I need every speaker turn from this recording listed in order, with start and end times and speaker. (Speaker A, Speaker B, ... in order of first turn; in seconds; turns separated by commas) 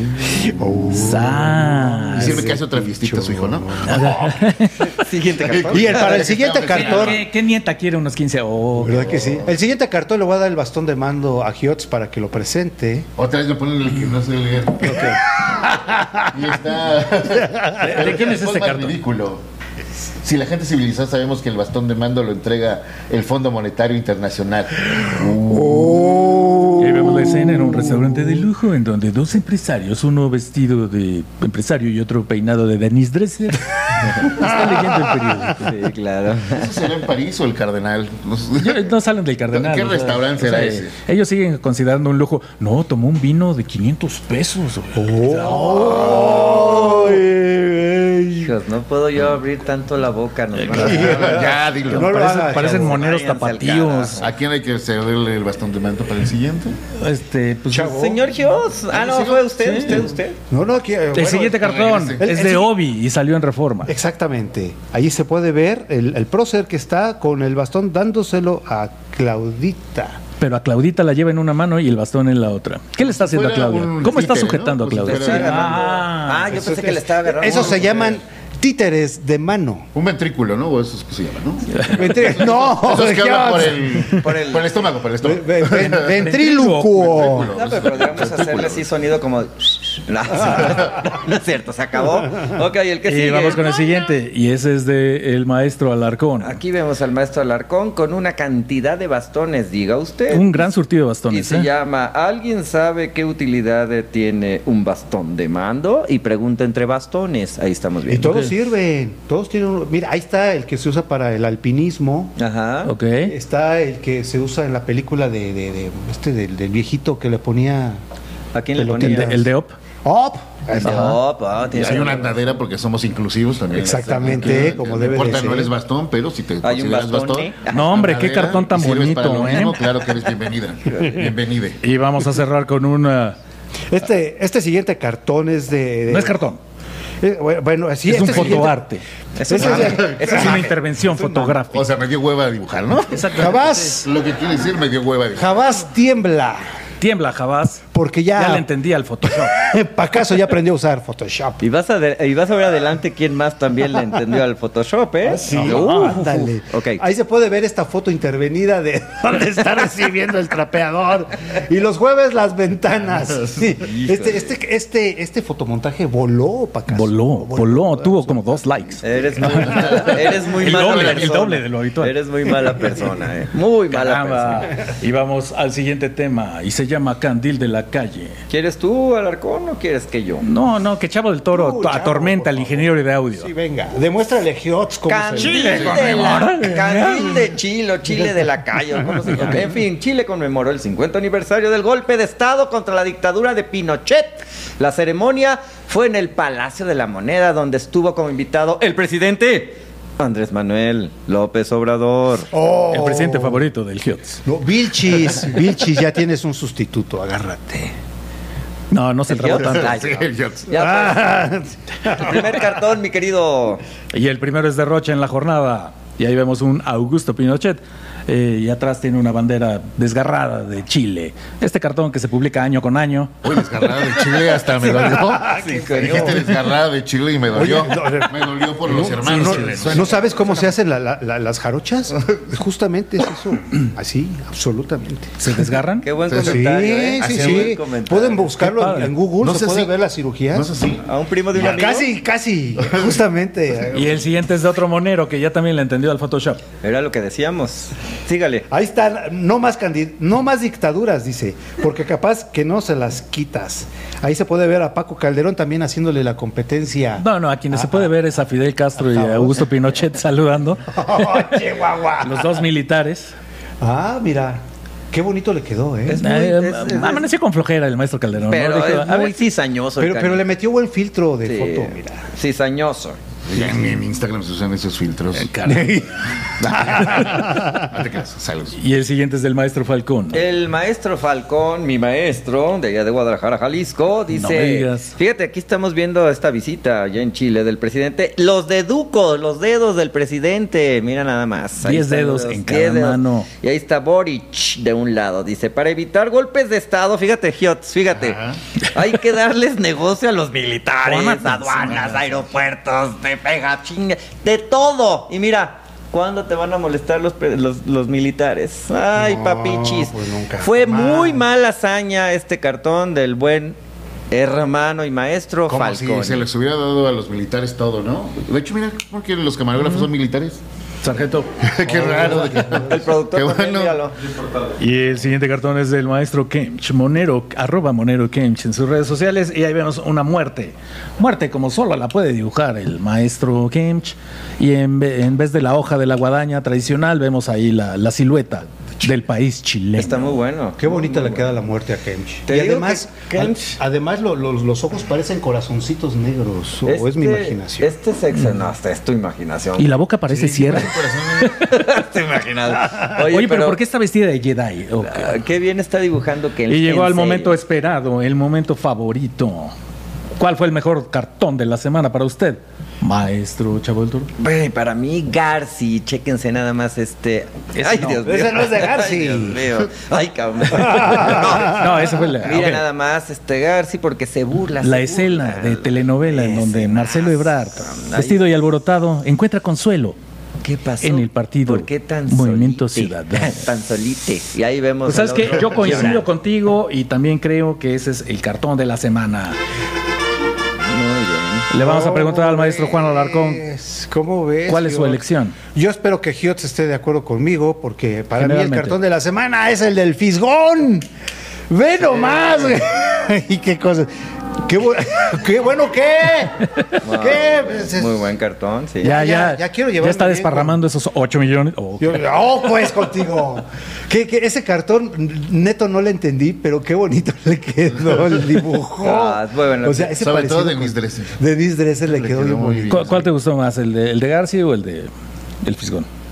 Speaker A: 0.2-4.1, Speaker B: 0.8-2.4, Speaker C: 2.2-4.4, Speaker B: 3.9-4.9, Speaker D: 4.9-6.3, Speaker C: 5.4-7.2, Speaker A: 5.7-7.2, Speaker B: 6.7-9.2, Speaker A: 8.8-13.1, Speaker C: 9.1-9.5, Speaker C: 13.2-15.2, Speaker A: 14.8-16.5, Speaker C: 16.3-19.4, Speaker A: 17.3-18.0, Speaker B: 17.8-19.0, Speaker C: 20.2-26.2, Speaker A: 25.4-28.4, Speaker B: 26.8-35.8, Speaker A: 34.4-35.5, Speaker D: 35.6-36.9, Speaker C: 36.5-38.9, Speaker B: 38.6-46.5, Speaker C: 39.5-40.9, Speaker A: 45.0-48.5, Speaker C: 45.8-47.2, Speaker D: 48.4-51.4, Speaker B: 50.5-51.4, Speaker A: 50.7-53.0, Speaker C: 51.0-52.3, Speaker B: 51.9-54.3, Speaker D: 52.5-54.3, Speaker C: 54.2-56.8, Speaker B: 57.0-58.0, Speaker A: 57.7-58.2, Speaker D: 57.8-60.4, Speaker C: 58.9-60.1, Speaker B: 59.6-60.1, Speaker A: 60.5-61.7, Speaker B: 61.1-63.9, Speaker C: 61.6-62.3, Speaker A: 62.2-62.7, Speaker A: 63.9-70.2, Speaker B: 70.4-76.5, Speaker C: 73.0-75.9, Speaker D: 75.0-78.2, Speaker A: 76.5-79.9, Speaker C: 79.9-86.4, Speaker B: 81.7-82.2, Speaker A: 81.9-84.2, Speaker D: 84.2-84.9, Speaker A: 85.2-87.5, Speaker B: 86.2-87.2, Speaker C: 86.9-88.8, Speaker D: 87.3-93.8, Speaker B: 93.1-96.6, Speaker D: 96.4-100.7, Speaker B: 100.3-101.7, Speaker D: 101.3-108.3, Speaker A: 108.1-112.3, Speaker B: 108.2-108.5, Speaker D: 112.4-112.9, Speaker B: 112.9-113.3, Speaker A: 113.2-118.0, Speaker D: 118.5-119.4, Speaker A: 118.8-119.5, Speaker B: 119.0-119.8, Speaker A: 120.0-121.2, Speaker D: 120.8-122.3, Speaker B: 120.8-121.2, Speaker C: 121.7-131.8, Speaker A: 123.7-125.7, Speaker B: 124.3-125.2, Speaker D: 126.6-128.1, Speaker B: 127.7-129.8, Speaker D: 130.9-131.1, Speaker B: 131.8-133.4, Speaker A: 133.9-136.4, Speaker B: 136.1-136.6, Speaker A: 137.2-138.8, Speaker B: 138.1-139.0, Speaker C: 138.2-138.7, Speaker D: 139.4-140.8, Speaker A: 139.5-141.6, Speaker B: 139.6-141.9, Speaker C: 139.7-140.2, Speaker C: 141.7-143.5, Speaker B: 143.1-144.1, Speaker A: 143.3-144.1, Speaker C: 144.0-145.5, Speaker A: 145.3-146.8, Speaker B: 147.0-147.8, Speaker A: 147.9-148.7, Speaker B: 148.4-149.6, Speaker A: 149.3-151.6, Speaker D: 151.6-157.0, Speaker A: 155.2-169.7, Speaker B: 155.6-156.5, Speaker D: 163.8-164.5, Speaker B: 166.9-172.8, Speaker D: 169.0-174.7, Speaker C: 169.6-171.4, Speaker B: 173.9-178.4, Speaker D: 178.5-180.5, Speaker B: 180.4-183.5, Speaker A: 181.5-186.4, Speaker D: 185.1-202.5, Speaker B: 185.4-187.3, Speaker B: 189.3-189.7, Speaker A: 202.5-203.7, Speaker B: 202.9-204.4, Speaker A: 204.4-207.9, Speaker B: 208.9-210.0, Speaker D: 209.3-211.3, Speaker C: 209.6-210.7, Speaker A: 210.7-212.6, Speaker D: 212.1-213.8, Speaker B: 214.1-223.4, Speaker C: 223.4-230.1, Speaker A: 224.8-226.4, Speaker D: 225.4-226.6, Speaker A: 227.5-235.7, Speaker B: 229.0-230.1, Speaker D: 229.9-230.7, Speaker B: 235.4-236.1, Speaker D: 236.0-238.5, Speaker C: 236.3-236.7, Speaker A: 236.4-240.7, Speaker C: 237.2-237.8, Speaker B: 238.6-239.1, Speaker C: 239.4-239.9, Speaker C: 240.5-241.8, Speaker D: 241.1-242.1, Speaker A: 241.5-244.2, Speaker B: 243.9-246.6, Speaker D: 246.8-248.7, Speaker A: 248.7-258.1, Speaker B: 257.2-261.5, Speaker A: 259.0-259.7, Speaker A: 260.9-262.7, Speaker B: 262.2-263.4, Speaker A: 263.8-266.3, Speaker D: 266.1-267.3, Speaker B: 266.2-269.4, Speaker D: 268.4-270.4, Speaker A: 270.0-272.3, Speaker D: 271.5-273.2, Speaker C: 273.5-275.5, Speaker B: 275.4-277.8, Speaker C: 276.6-278.8, Speaker A: 276.9-277.9, Speaker B: 278.8-280.4, Speaker D: 280.3-313.8, Speaker B: 284.3-285.1, Speaker B: 291.8-293.5, Speaker C: 298.1-298.6, Speaker B: 301.0-302.4, Speaker A: 309.1-311.4, Speaker D: 314.3-316.5, Speaker C: 315.7-320.6, Speaker B: 319.8-320.1, Speaker B: 321.0-321.5, Speaker C: 321.6-324.0, Speaker A: 321.8-323.1, Speaker D: 322.8-324.1, Speaker B: 324.8-340.4, Speaker D: 340.0-341.5, Speaker A: 340.8-347.9, Speaker D: 342.5-343.8, Speaker D: 346.9-350.0, Speaker B: 348.3-348.6, Speaker B: 349.8-351.9, Speaker C: 350.3-351.6, Speaker D: 351.6-353.8, Speaker B: 352.9-355.4, Speaker D: 355.0-357.6, Speaker B: 356.7-359.7, Speaker B: 360.4-364.3, Speaker D: 364.4-378.5, Speaker B: 367.8-368.2, Speaker A: 368.2-369.7, Speaker B: 370.7-372.8, Speaker A: 370.8-372.0, Speaker B: 374.8-380.2, Speaker D: 380.6-386.3, Speaker B: 381.0-383.7, Speaker B: 385.1-389.6, Speaker D: 390.9-391.7, Speaker B: 391.7-393.6, Speaker A: 391.7-401.1, Speaker B: 394.7-395.6, Speaker B: 398.4-399.0, Speaker A: 401.7-408.2, Speaker D: 407.0-409.2, Speaker A: 409.0-410.8, Speaker B: 409.0-412.3, Speaker A: 412.0-423.1, Speaker D: 419.0-420.1, Speaker C: 420.1-421.3, Speaker C: 422.1-423.3, Speaker B: 422.9-425.1, Speaker B: 425.6-426.1